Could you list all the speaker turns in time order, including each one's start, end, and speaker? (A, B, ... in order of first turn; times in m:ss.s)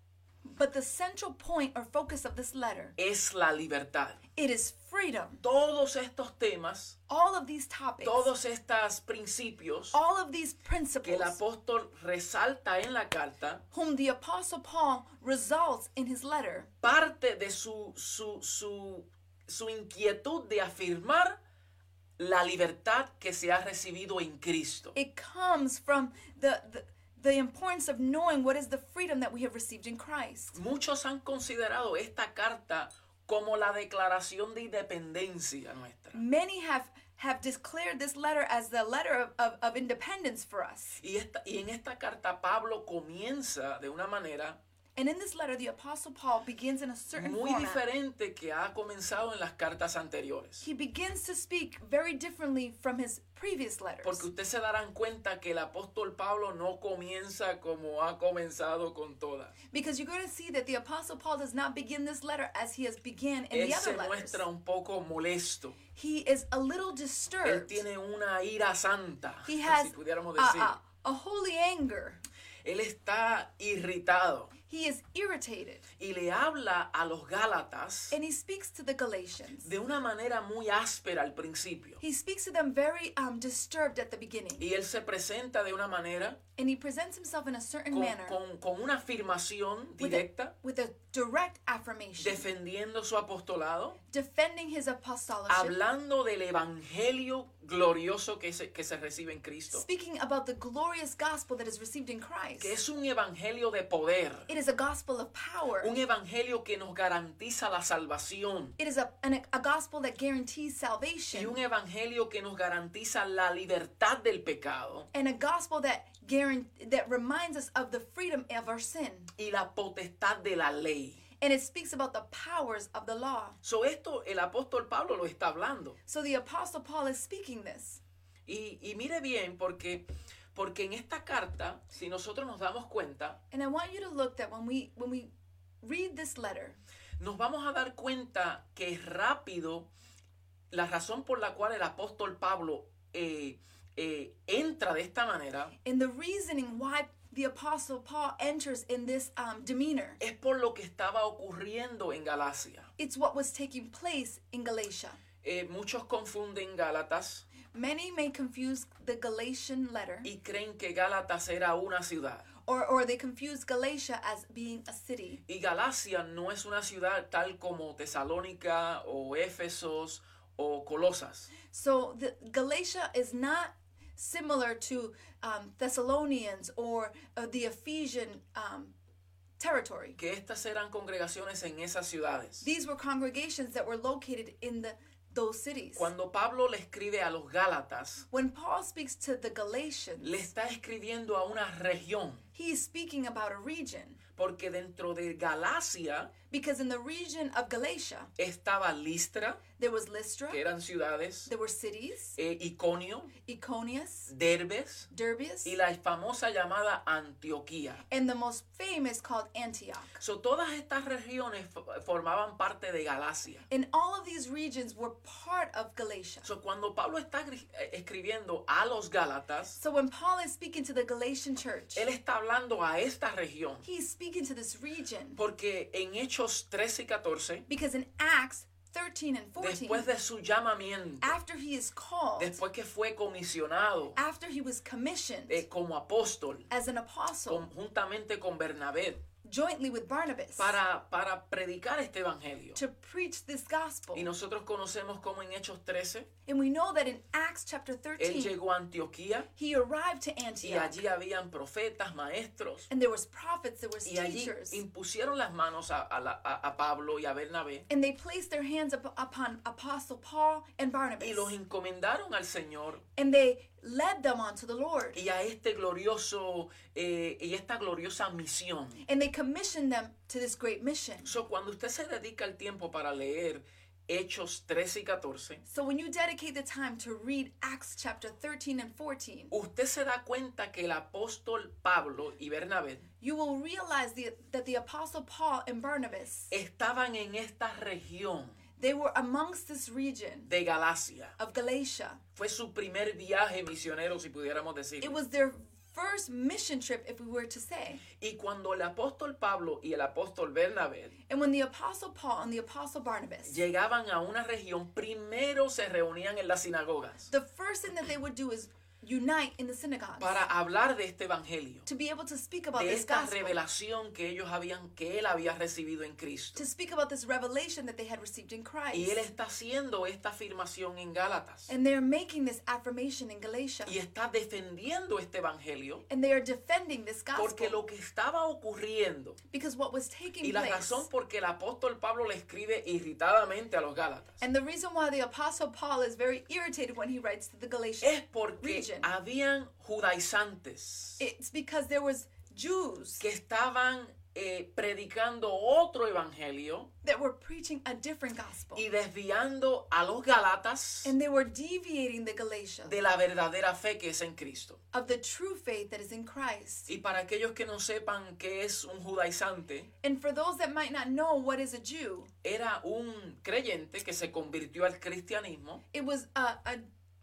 0:00.4-0:03.0 A
0:03.0-0:04.2 B
0:04.4-0:05.4 A
0:05.4-0:07.0 B
0:07.1-0:08.3 A
0:08.0-0:10.0 B
0:09.9-0:11.4 A
0:11.0-0:13.6 B
0:13.7-0:16.7 A
0:16.8-0:21.4 B
0:22.2-0:25.0 B
0:25.0-0:30.6 A
0:30.5-0:36.2 B
0:36.1-0:41.0 A
0:41.0-0:44.6 B
0:45.0-0:47.8 A
0:47.1-0:50.7 B
0:50.6-0:54.3 A
0:54.0-0:59.5 B
0:59.7-1:04.4 A
1:03.5-1:05.8 B
1:06.0-1:07.8 A
1:07.4-1:10.8 B
1:09.4-1:12.2 A
1:12.6-1:14.5 B
1:14.7-1:15.9 A
1:16.0-1:18.2 B
1:18.1-1:19.7 A
1:19.6-1:22.0 B
1:22.0-1:24.7 A
1:24.6-1:26.4 B
1:26.6-1:28.4 A
1:27.9-1:30.5 B
1:30.0-1:32.5 A
1:32.2-1:34.0 B
1:34.1-1:35.8 A
1:35.5-1:39.8 B
1:39.7-1:42.8 A
1:42.6-1:44.5 B
1:44.5-1:46.0 A
1:45.8-1:48.8 B
1:48.8-1:51.6 A
1:51.3-1:55.1 B
1:55.1-1:59.3 A
1:59.4-2:01.2 B
2:01.4-2:03.6 A
2:03.6-2:06.0 B
2:06.1-2:08.0 A
2:08.5-2:10.0 B
2:10.5-2:13.4 B
2:13.5-2:15.3 A
2:15.8-2:16.8 A
2:17.2-2:19.9 B
2:20.7-2:25.7 B
2:25.8-2:30.2 A
2:30.2-2:32.9 B
2:33.0-2:35.2 A
2:35.4-2:37.5 B
2:37.7-2:40.3 A
2:40.2-2:42.5 B
2:42.6-2:45.4 A
2:45.5-2:51.5 B
2:51.7-2:58.9 A
2:59.6-3:00.2 A
3:00.2-3:02.7 B
3:02.6-3:06.1 A
3:06.0-3:08.2 B
3:08.3-3:10.5 A
3:10.2-3:12.5 B
3:12.6-3:14.2 A
3:14.4-3:16.3 B
3:16.5-3:18.3 A
3:18.4-3:19.6 B
3:19.8-3:20.6 A
3:20.5-3:21.5 B
3:21.5-3:22.4 A
3:22.4-3:23.3 B
3:23.4-3:24.3 A
3:24.3-3:25.1 B
3:25.1-3:25.8 A
3:25.6-3:28.0 B
3:28.1-3:30.2 A
3:30.2-3:33.6 B
3:33.7-3:36.5 A
3:36.4-3:39.8 B
3:39.8-3:42.1 A
3:42.0-3:43.9 B
3:43.8-3:45.4 A
3:45.4-3:47.6 B
3:47.7-3:50.1 A
3:49.6-3:51.4 B
3:51.2-3:52.6 A
3:52.4-3:54.2 B
3:54.2-3:55.6 A
3:55.5-3:56.7 B
3:56.7-3:57.7 A
3:57.5-3:59.2 B
3:59.4-4:00.8 A
4:00.6-4:02.8 B
4:02.8-4:04.3 A
4:04.1-4:06.3 B
4:06.5-4:08.6 A
4:08.2-4:09.5 B
4:09.6-4:11.0 A
4:10.6-4:12.9 B
4:12.9-4:14.8 A
4:14.0-4:17.9 B
4:17.9-4:21.6 A
4:21.2-4:23.0 B
4:23.2-4:25.2 A
4:25.2-4:29.0 B
4:29.0-4:31.3 A
4:31.2-4:35.6 B
4:35.7-4:39.5 A
4:39.5-4:43.1 B
4:43.2-4:46.5 A
4:46.5-4:48.6 B
4:48.8-4:50.5 A
4:50.5-4:51.4 B
4:51.4-4:52.2 A
4:52.4-4:55.2 B
4:55.0-4:58.0 A
4:58.2-5:01.2 B
5:01.3-5:03.6 A
5:03.4-5:07.3 B
5:07.3-5:10.4 A
5:10.2-5:11.9 B
5:11.9-5:13.6 A
5:12.8-5:16.6 B
5:16.6-5:19.3 A
5:18.9-5:21.7 B
5:21.7-5:24.0 A
5:23.9-5:26.0 B
5:26.1-5:27.8 A
5:27.3-5:29.4 B
5:29.5-5:31.1 A
5:30.4-5:34.4 B
5:34.4-5:39.1 A
5:38.0-5:41.2 B
5:41.2-5:43.2 A
5:43.2-5:46.9 B
5:47.0-5:48.8 A
5:48.8-5:51.1 B
5:51.0-5:53.0 A
5:52.8-5:54.8 B
5:54.9-5:56.9 A
5:56.9-5:59.9 B
6:00.0-6:02.3 A
6:02.4-6:05.8 B
6:05.9-6:06.8 A